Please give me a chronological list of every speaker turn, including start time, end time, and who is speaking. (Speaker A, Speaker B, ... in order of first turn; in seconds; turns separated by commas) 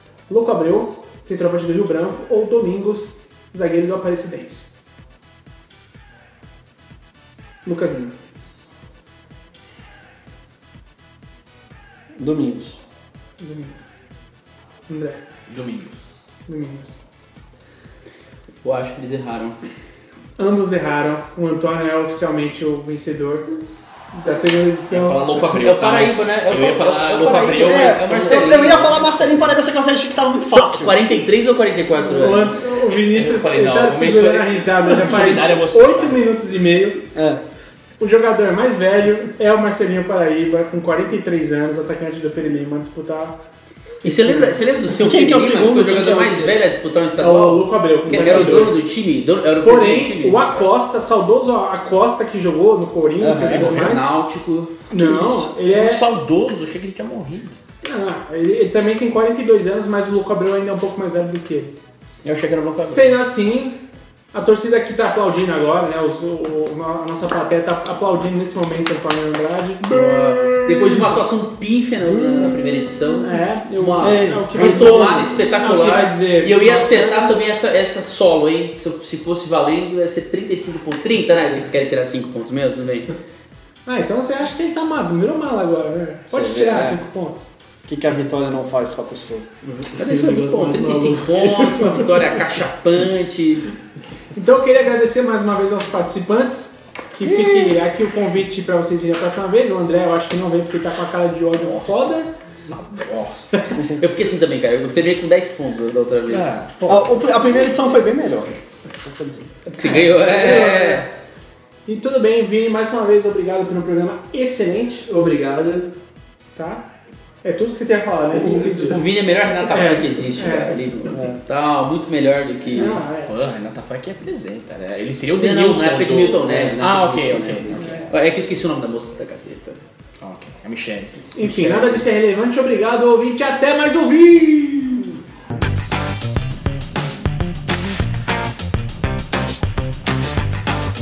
Speaker A: 0.3-4.7, Speaker A: 7.6-8.1, Speaker B: 12.2-12.8, Speaker A: 13.4-13.8, Speaker A: 14.9-15.2, Speaker C: 15.5-16.0, Speaker A: 16.5-17.0, Speaker D: 18.6-19.6, Speaker A: 20.4-23.5, Speaker A: 24.1-25.4, Speaker C: 24.9-28.6, Speaker D: 25.6-29.5, Speaker B: 27.6-31.0, Speaker D: 30.5-32.7, Speaker A: 31.9-37.1, Speaker C: 32.7-36.2, Speaker B: 37.1-37.4, Speaker A: 38.0-43.4, Speaker D: 44.0-50.4, Speaker A: 44.0-44.5, Speaker B: 44.9-46.6, Speaker A: 47.2-48.9, Speaker B: 48.2-48.6, Speaker A: 49.6-54.1, Speaker B: 53.2-53.9, Speaker D: 53.5-54.8, Speaker A: 54.9-56.0, Speaker B: 54.9-55.5, Speaker C: 55.7-57.5, Speaker A: 57.8-61.8, Speaker C: 62.2-63.2, Speaker A: 62.8-63.8, Speaker A: 64.3-70.5, Speaker D: 69.9-83.1, Speaker A: 73.1-77.3, Speaker B: 74.0-75.1, Speaker A: 83.8-87.5, Speaker B: 86.3-87.0, Speaker B: 87.8-89.5, Speaker E: 89.6-92.2, Speaker D: 90.0-93.7, Speaker A: 94.3-102.3, Speaker B: 97.2-97.8, Speaker C: 101.5-103.6, Speaker D: 103.8-106.5, Speaker C: 106.3-107.0, Speaker B: 106.9-109.5, Speaker D: 109.7-111.1, Speaker A: 109.8-111.1, Speaker A: 111.8-115.2, Speaker E: 115.1-115.9, Speaker A: 116.5-116.9, Speaker A: 117.4-119.0, Speaker D: 118.7-123.0, Speaker A: 119.7-120.8, Speaker B: 121.1-121.4, Speaker A: 122.7-123.3, Speaker C: 122.8-128.1, Speaker D: 125.4-129.8, Speaker C: 130.2-131.2, Speaker A: 131.3-135.1, Speaker D: 131.4-132.0